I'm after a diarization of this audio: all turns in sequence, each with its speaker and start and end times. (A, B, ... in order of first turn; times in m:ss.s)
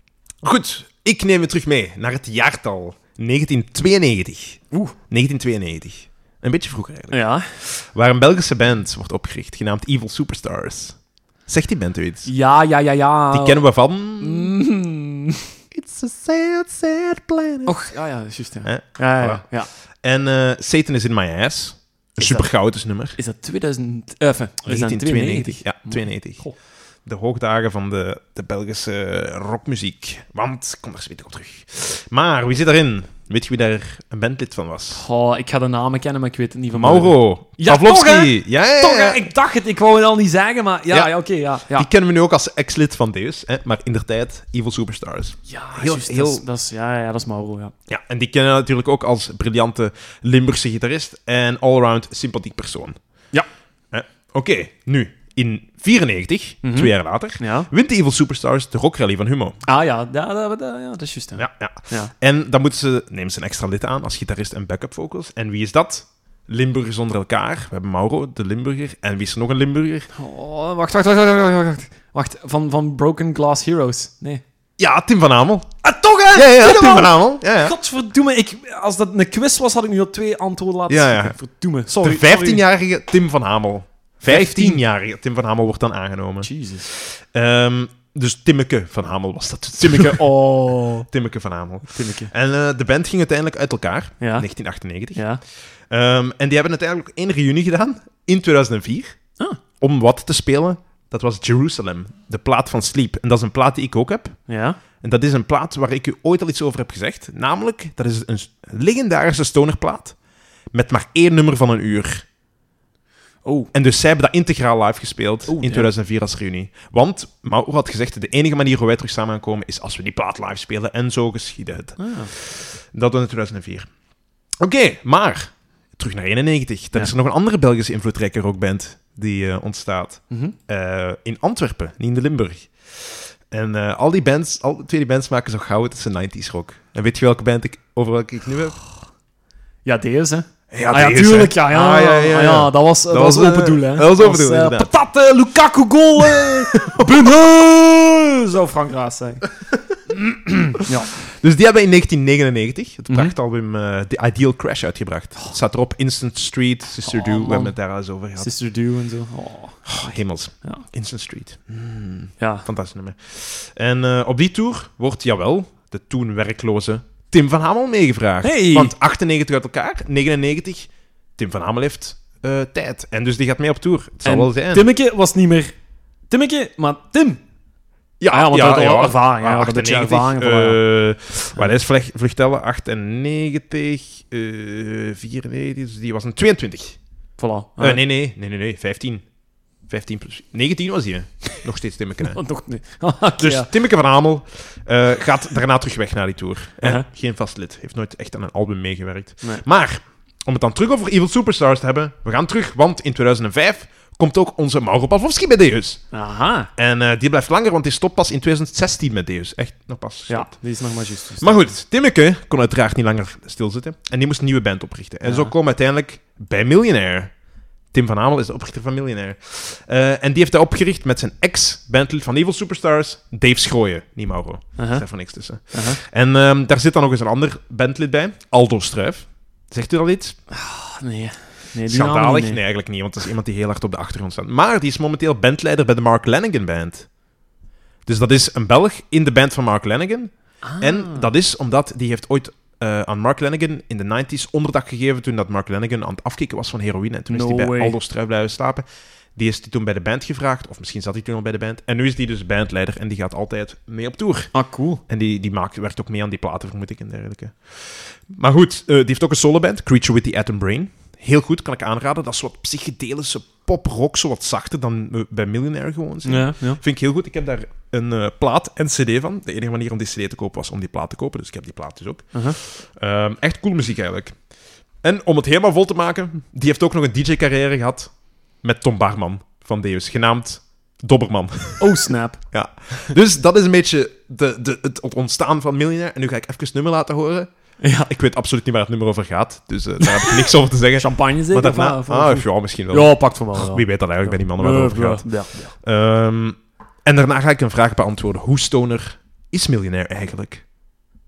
0:00.4-0:12.3 A
0:07.1-0:07.5 B
0:12.2-0:13.7 B
0:13.3-0:14.5 A
0:14.2-0:15.5 B
0:15.7-0:17.8 A
0:17.6-0:19.7 B
0:18.6-0:19.5 A
0:20.0-0:23.2 A
0:22.2-0:22.5 B
0:23.2-0:26.5 B
0:24.7-0:26.5 A
0:27.0-0:35.0 A
0:34.9-0:41.9 B
0:36.7-0:39.2 A
0:41.7-0:46.4 A
0:45.5-0:47.7 B
0:47.9-0:53.0 A
0:53.9-0:59.6 A
0:56.6-0:57.7 B
0:59.6-1:02.1 B
1:01.4-1:10.1 A
1:10.2-1:14.4 B
1:14.8-1:15.7 A
1:15.8-1:22.6 B
1:16.3-1:17.7 A
1:20.9-1:21.4 A
1:21.9-1:30.4 A
1:24.2-1:24.8 B
1:26.4-1:26.9 B
1:29.8-1:31.1 B
1:31.1-1:35.2 A
1:31.9-1:32.3 B
1:34.2-1:34.4 B
1:35.1-1:35.4 B
1:35.9-1:39.2 A
1:39.8-1:44.4 A
1:44.5-1:44.8 B
1:45.0-1:50.2 A
1:50.7-1:52.3 A
1:53.4-1:53.7 B
1:53.7-2:03.9 A
1:55.5-1:55.9 B
2:02.0-2:02.3 B
2:04.6-2:18.8 A
2:19.8-2:29.4 B
2:20.7-2:24.9 A
2:26.2-2:27.4 A
2:30.1-2:31.1 B
2:30.6-2:38.5 A
2:33.1-2:33.3 B
2:37.0-2:37.8 B
2:38.4-2:40.8 B
2:39.8-2:54.9 A
2:42.4-2:42.7 B
2:48.4-2:48.9 B
2:54.2-2:55.7 B
2:56.3-2:57.4 B
2:58.2-3:07.0 A
2:58.3-3:00.8 B
3:07.4-3:08.0 B
3:07.8-3:09.3 A
3:09.8-3:12.4 A
3:12.2-3:13.7 B
3:13.4-3:26.0 A
3:26.1-3:26.7 B
3:26.8-3:30.6 A
3:30.3-3:31.6 B
3:31.4-3:37.3 A
3:35.2-3:35.5 B
3:37.9-3:50.4 A
3:44.8-3:46.0 B
3:50.5-3:52.6 B
3:51.8-3:57.1 A
3:58.0-4:14.5 A
4:00.6-4:01.3 B
4:07.3-4:08.0 B
4:14.5-4:15.0 B
4:15.1-4:34.4 A
4:26.2-4:26.8 B
4:32.3-4:32.6 B
4:35.0-4:47.5 A
4:41.8-4:42.5 B
4:47.8-4:48.1 B
4:48.1-5:00.7 A
4:50.0-4:50.4 B
4:51.0-4:55.7 B